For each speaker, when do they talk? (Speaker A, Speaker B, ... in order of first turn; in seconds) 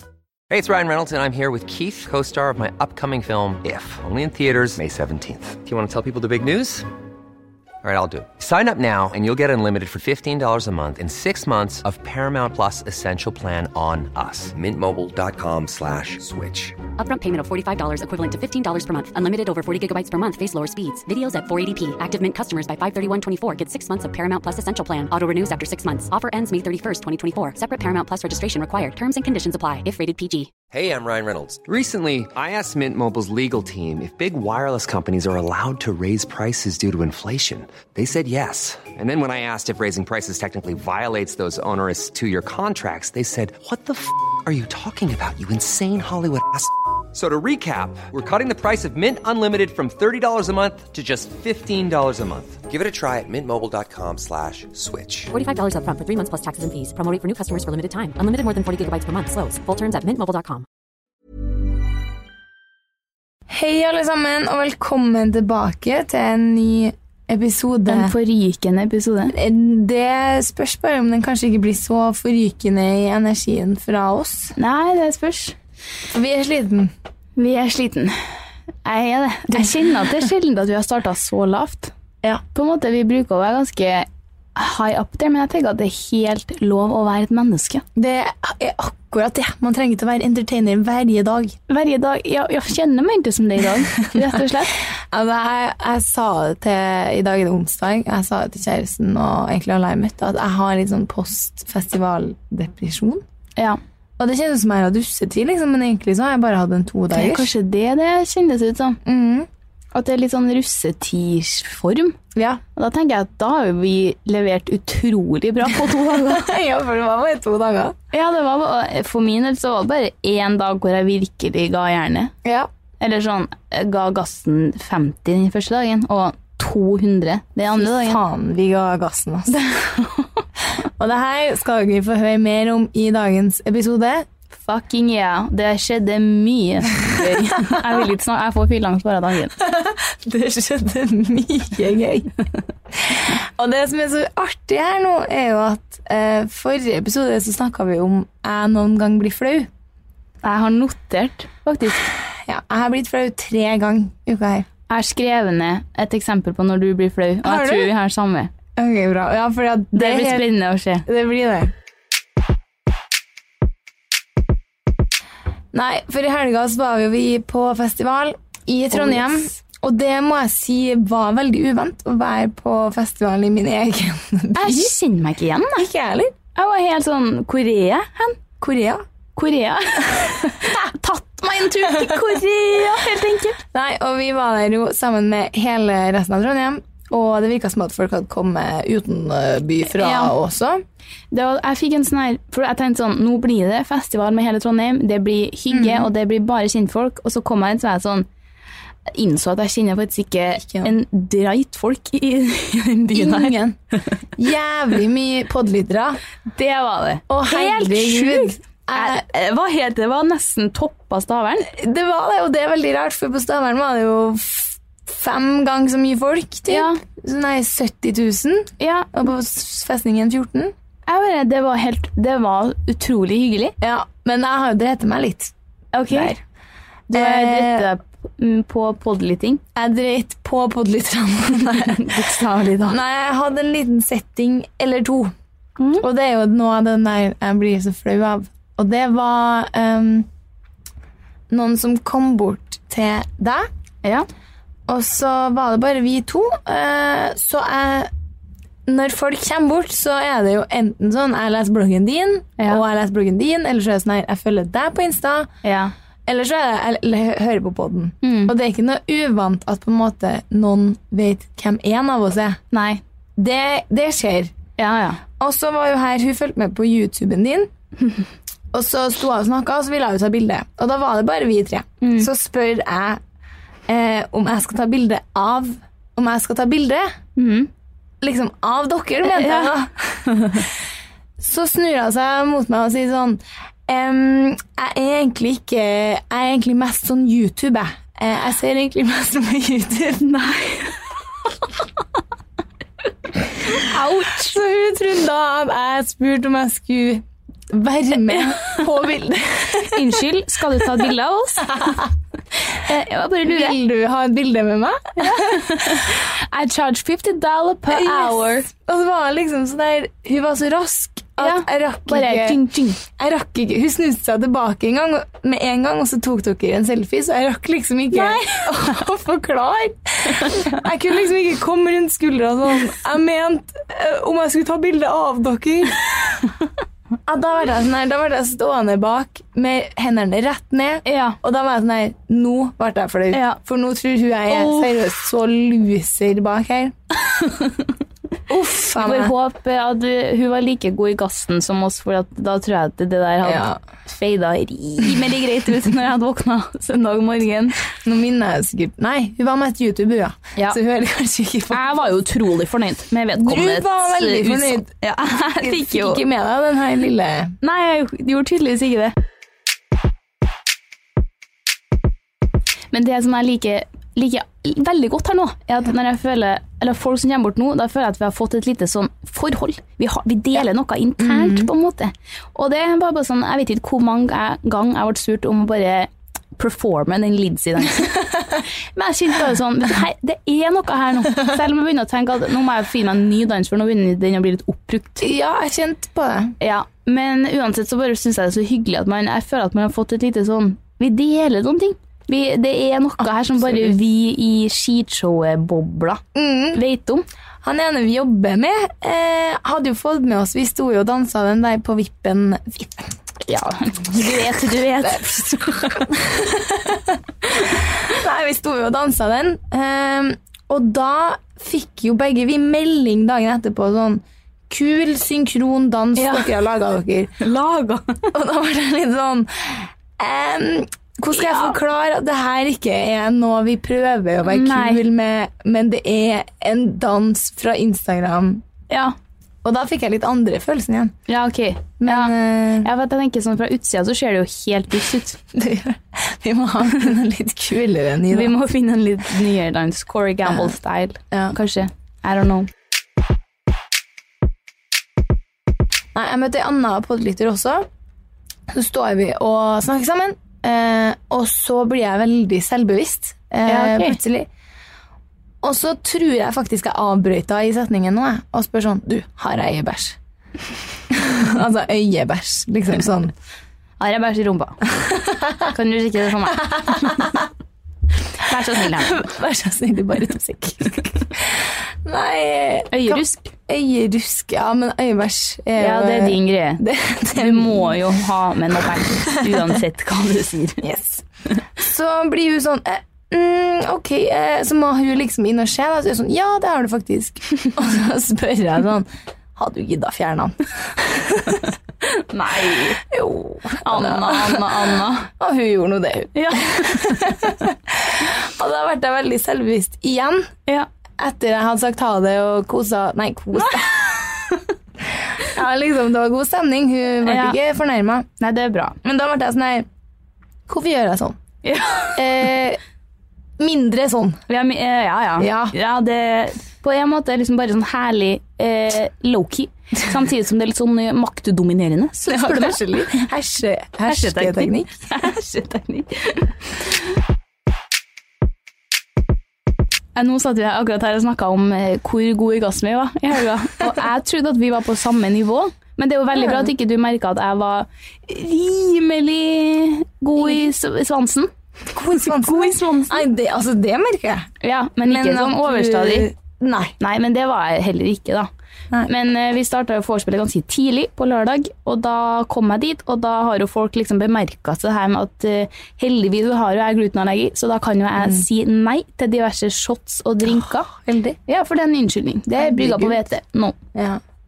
Speaker A: 0.5-6.9, 7.8-16.8, 30.7-55.3
Speaker B: 17.0-30.5, 55.3-60.7
Speaker C: 63.5-68.2, 69.3-74.5, 76.1-76.9, 88.0-91.6, 94.0-103.2, 104.2-107.5, 109.0-109.5, 112.3-112.6, 116.1-118.0, 122.4-122.7, 127.7-129.7, 131.0-134.3, 137.2-137.8, 139.6-142.3, 142.9-149.7, 152.3-154.7, 157.4-157.9, 158.8-160.5, 161.1-161.7, 165.7-174.9, 175.8-176.3, 178.6-179.0, 183.7-190.8, 195.7-196.1, 200.6-200.9, 203.1-203.8, 204.4-206.2, 207.3-209.2, 211.7-220.7, 223.8-225.5, 226.1-226.4, 227.1-227.9, 229.8-232.2, 232.9-235.3, 236.0-240.3, 241.5-243.7, 244.9-248.1, 248.9-255.5, 256.3-262.6, 263.4-264.5, 265.4-267.7, 268.7-273.2, 273.9-277.1, 278.2-280.6, 281.4-290.2, 294.3-300.2, 303.4-306.1, 307.9-326.0, 327.3-336.9, 338.5-339.3, 343.4-343.8, 348.0-352.0, 353.3-354.9, 355.5-357.6, 371.2-371.7, 385.2-386.6, 393.4-393.9, 396.4-396.8, 397.6-403.1, 405.9-417.4, 418.3-428.6, 429.6-431.1, 432.0-432.9, 435.5-438.6, 440.4-440.8, 446.1-447.9, 448.7-454.5, 455.6-460.2, 461.1-463.3, 465.1-465.6, 466.6-467.4, 468.8-478.0, 479.3-479.6, 480.8-481.2, 481.8-491.6, 493.0-500.5, 501.2-504.0, 505.0-508.3, 509.0-509.9, 510.7-511.4, 512.2-512.8, 513.6-514.4, 515.4-515.8, 522.3-524.9, 536.3-536.7, 541.9-544.5, 545.0-547.0, 558.2-558.4, 560.5-561.4, 562.5-563.2, 564.0-564.2
Speaker D: 67.9-69.4, 74.6-75.6, 77.4-78.2, 78.8-81.9, 82.5-87.8, 91.7-94.8, 107.1-109.0, 109.9-112.2, 112.8-116.5, 118.1-122.3, 123.0-128.2, 129.5-130.3, 134.5-139.6, 150.4-152.1, 154.9-158.5, 159.9-161.1, 169.0-169.3, 174.5-175.8, 176.6-178.4, 179.4-183.6, 190.0-190.3, 191.3-198.3, 199.1-203.6, 206.6-211.7, 216.7-217.0, 218.8-219.1, 221.1-223.7, 225.9-226.3, 227.1-229.6, 231.9-233.0, 235.8-236.1, 255.6-255.9, 258.2-258.5, 262.7-263.0, 264.8-265.2, 272.0-272.3, 277.4-277.7, 279.2-279.7, 280.3-280.6, 290.2-291.0, 293.6-294.6, 299.8-301.9, 302.9-303.8, 305.2-308.7, 311.4-313.0, 318.1-318.9, 331.1-331.4, 333.3-333.6, 334.5-335.0, 337.4-337.7, 339.0-347.8, 351.7-356.2, 357.6-359.1, 362.9-385.3, 386.6-397.2, 403.4-406.1, 416.2-416.5, 417.4-418.3, 421.3-421.7, 424.5-425.0, 428.9-429.1, 431.3-435.4, 438.3-442.7, 453.7-454.2, 464.0-464.9, 465.6-467.3, 468.4-469.2, 472.9-473.5, 475.8-480.8, 492.0-493.0, 493.8-495.3, 496.4-497.3, 504.0-504.6, 507.2-507.6, 508.4-509.0, 511.6-512.4, 514.5-523.2, 524.1-526.5, 530.2-541.5, 542.1-543.3, 544.6-546.3, 547.0-548.5, 549.1-560.9, 561.5-563.8